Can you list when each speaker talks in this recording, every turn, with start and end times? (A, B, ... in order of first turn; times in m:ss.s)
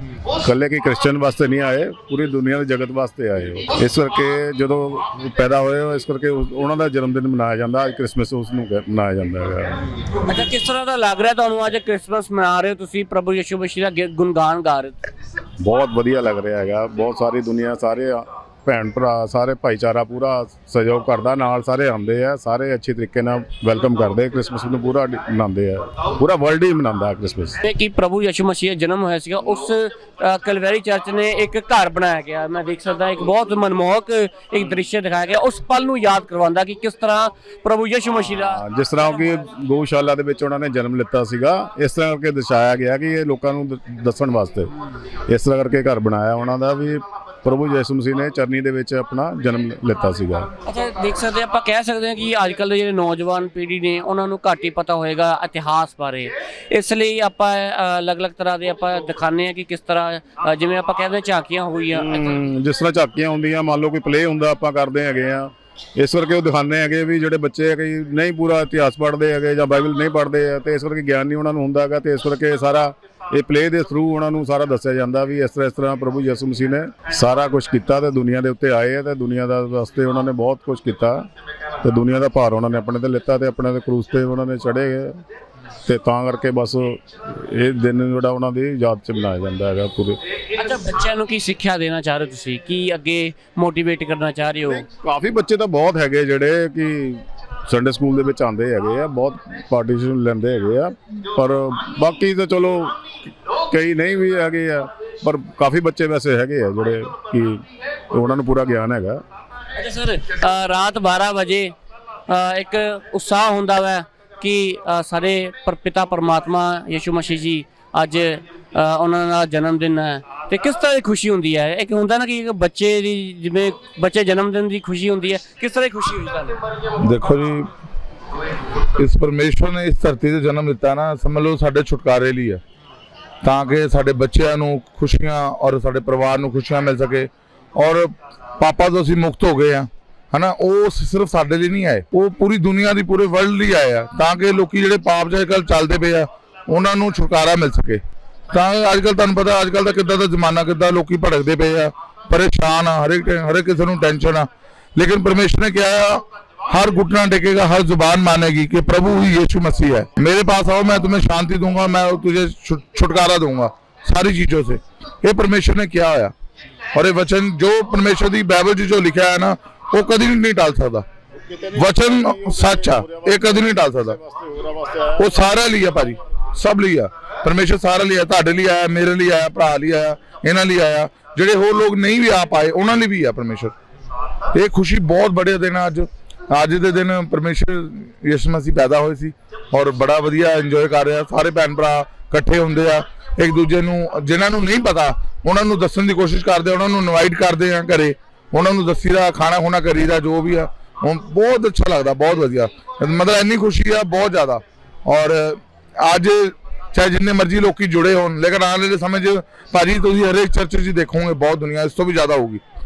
0:00.4-0:09.7 A
0:10.2-0:15.1 B
0:15.6-0:27.6 A
0:27.6-0:38.6 B
0:38.5-0:44.7 A
0:45.3-0:50.5 A
0:50.6-1:02.3 B
1:01.9-1:21.2 A
1:21.8-1:25.1 A
1:25.8-1:30.2 A
1:30.5-1:34.8 B
1:34.7-1:43.0 A
1:43.7-1:49.2 A
1:49.8-1:51.7 B
1:52.3-2:06.6 B
2:07.0-2:07.7 C
2:09.0-2:12.6 C
2:13.4-2:28.0 C
2:28.5-2:46.3 C
2:46.9-2:51.0 C
2:51.4-2:55.2 A
2:51.8-2:54.2 C
2:55.2-3:03.7 C
3:04.5-3:32.6 C